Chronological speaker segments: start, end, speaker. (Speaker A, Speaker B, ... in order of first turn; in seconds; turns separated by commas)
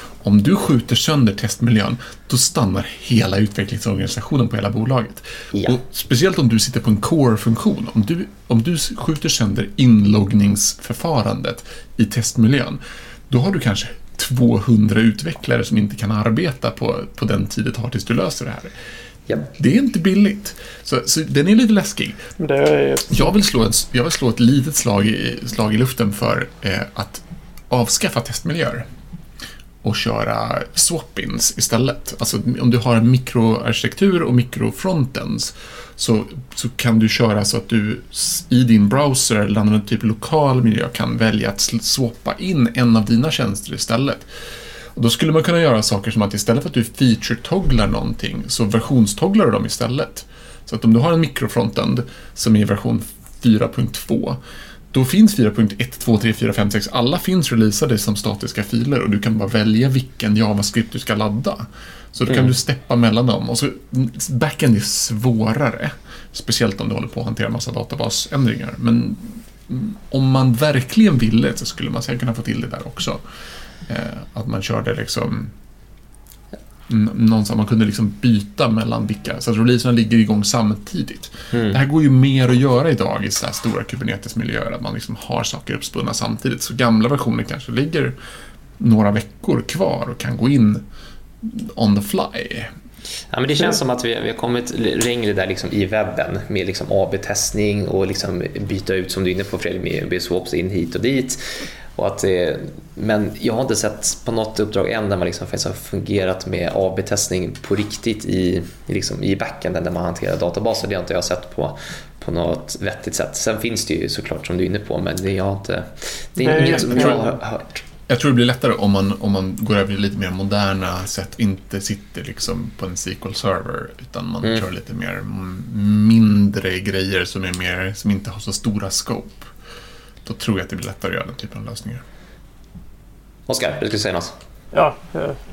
Speaker A: 0.2-18.7, Speaker B: 5.5-5.8, Speaker A: 19.6-22.2, Speaker C: 22.4-23.3, Speaker A: 23.1-28.9, Speaker A: 29.8-44.2, Speaker A: 44.9-54.4, Speaker A: 54.9-73.2, Speaker B: 62.3-62.5, Speaker A: 73.9-75.5, Speaker A: 76.9-88.1, Speaker B: 81.5-81.8, Speaker A: 88.8-90.8, Speaker A: 91.4-92.7, Speaker B: 93.3-101.4, Speaker B: 101.9-117.8, Speaker C: 116.4-117.3, Speaker A: 116.9-117.2, Speaker A: 118.1-129.5, Speaker A: 130.2-132.0, Speaker B: 133.5-134.3, Speaker C: 134.7-135.4